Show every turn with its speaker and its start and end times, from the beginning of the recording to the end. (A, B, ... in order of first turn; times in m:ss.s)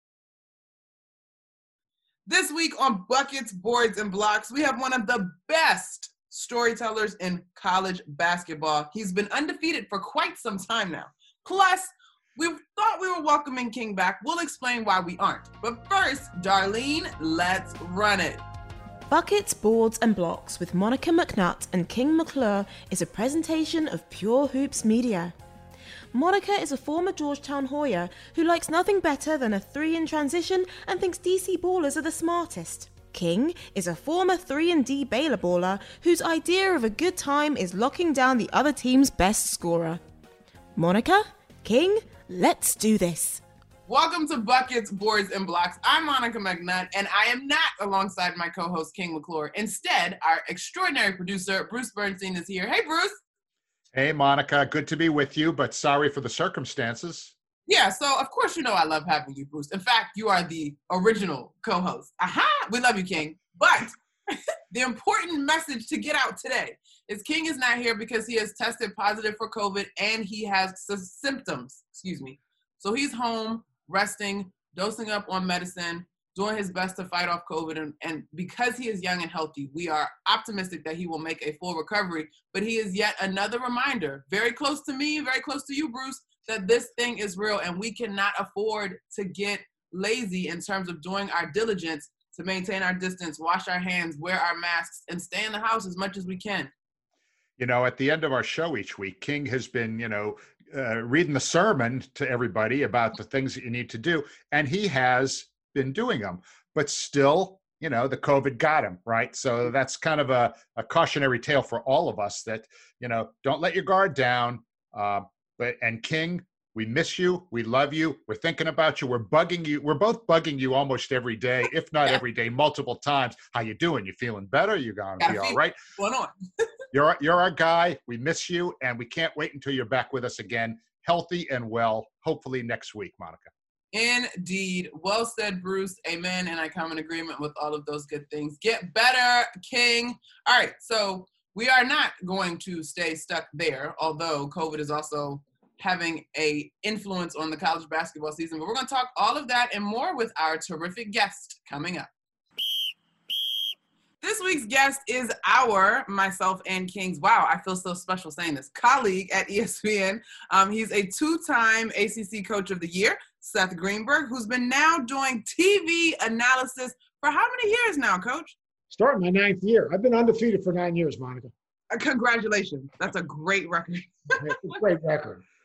0:02.3-0:18.4 A
0:19.1-0:25.3 B
0:26.1-0:40.0 B
0:40.8-0:43.4 B
0:43.9-0:53.2 A
0:53.9-0:57.3 C
0:57.7-1:36.7 A
1:37.6-2:05.8 C
2:05.2-2:06.3 A
2:06.9-2:13.5 C
2:13.9-2:32.1 A
2:34.2-2:48.6 A
2:48.9-2:51.5 D
2:51.9-2:54.5 A
2:54.4-2:55.4 D